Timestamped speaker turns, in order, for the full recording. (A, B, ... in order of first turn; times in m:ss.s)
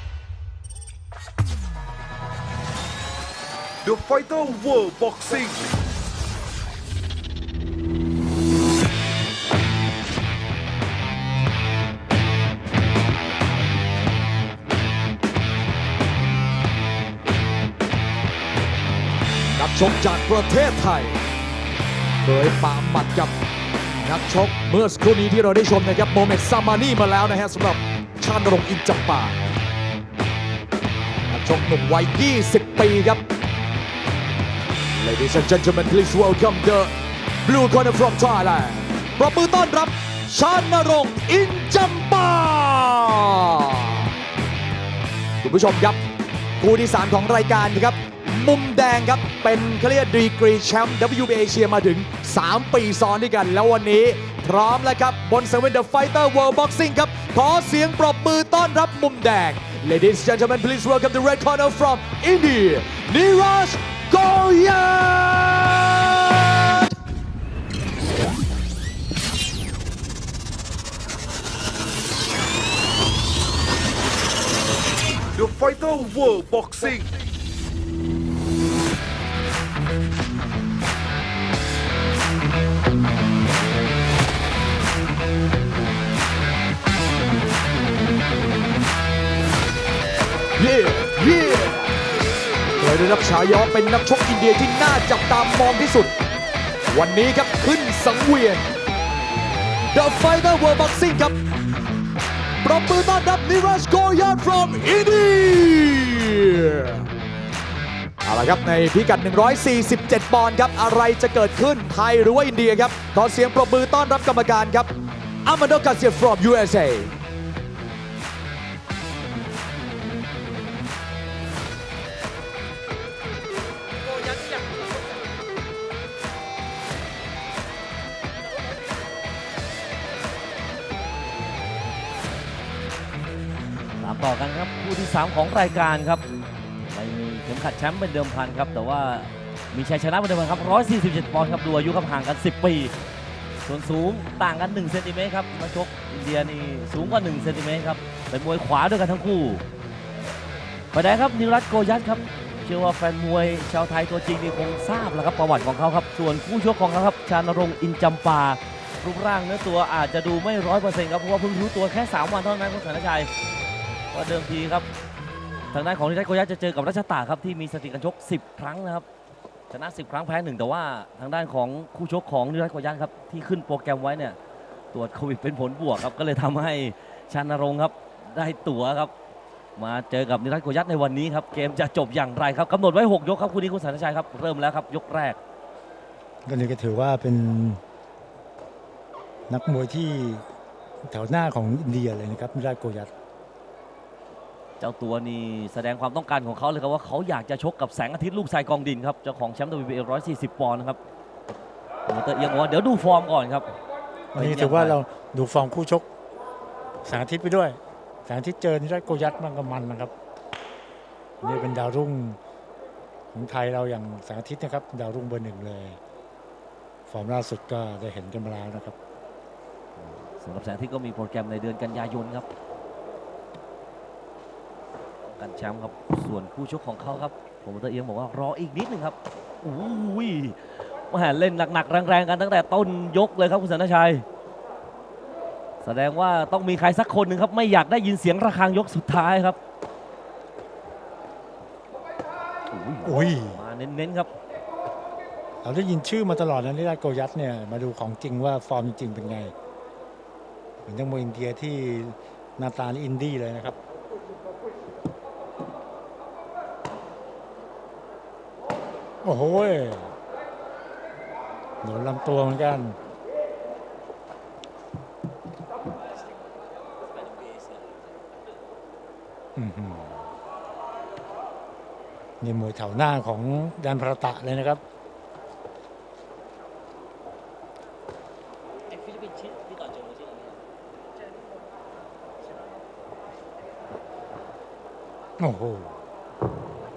0:03.8-0:05.7 A
0:19.6-0:21.2 B
0:22.2-0:23.3 B
0:24.0-0:29.4 B
0:31.3-0:33.2 B
0:35.0-0:36.9 B
0:37.4-0:44.1 B
0:45.4-0:46.0 B
0:46.6-1:06.9 B
1:15.3-1:17.1 A
1:30.6-1:31.9 B
1:32.8-1:36.1 B
1:36.9-1:38.6 B
1:39.9-1:41.3 B
1:42.6-1:47.1 B
1:48.2-1:54.9 B
1:55.4-1:57.1 B
2:14.0-2:16.2 C
2:16.9-2:22.9 C
2:23.6-2:29.6 C
2:30.9-2:43.3 C
2:44.1-2:44.8 C
2:45.7-2:49.0 C
2:49.7-2:54.4 C
2:54.9-2:59.1 C
2:59.8-3:05.4 C
3:06.4-3:07.8 D
3:09.5-3:10.4 D
3:11.0-3:13.1 D
3:14.8-3:21.0 C
3:22.1-3:23.7 C
3:24.3-3:25.0 C
3:24.3-3:26.0 D
3:27.0-3:30.1 D
3:31.4-3:32.4 D
3:33.3-3:36.0 D
3:37.1-3:39.0 D
3:40.1-3:42.5 C
3:45.2-3:54.2 C
3:55.8-3:59.6 C
4:02.7-4:04.3 C
4:03.0-4:03.6 D
4:05.6-4:09.5 D
4:10.8-4:13.8 D
4:19.2-4:20.1 D
4:21.8-4:23.0 D
4:29.6-4:30.2 D
4:32.4-4:34.8 D
4:38.9-4:40.5 C
4:45.4-4:46.0 D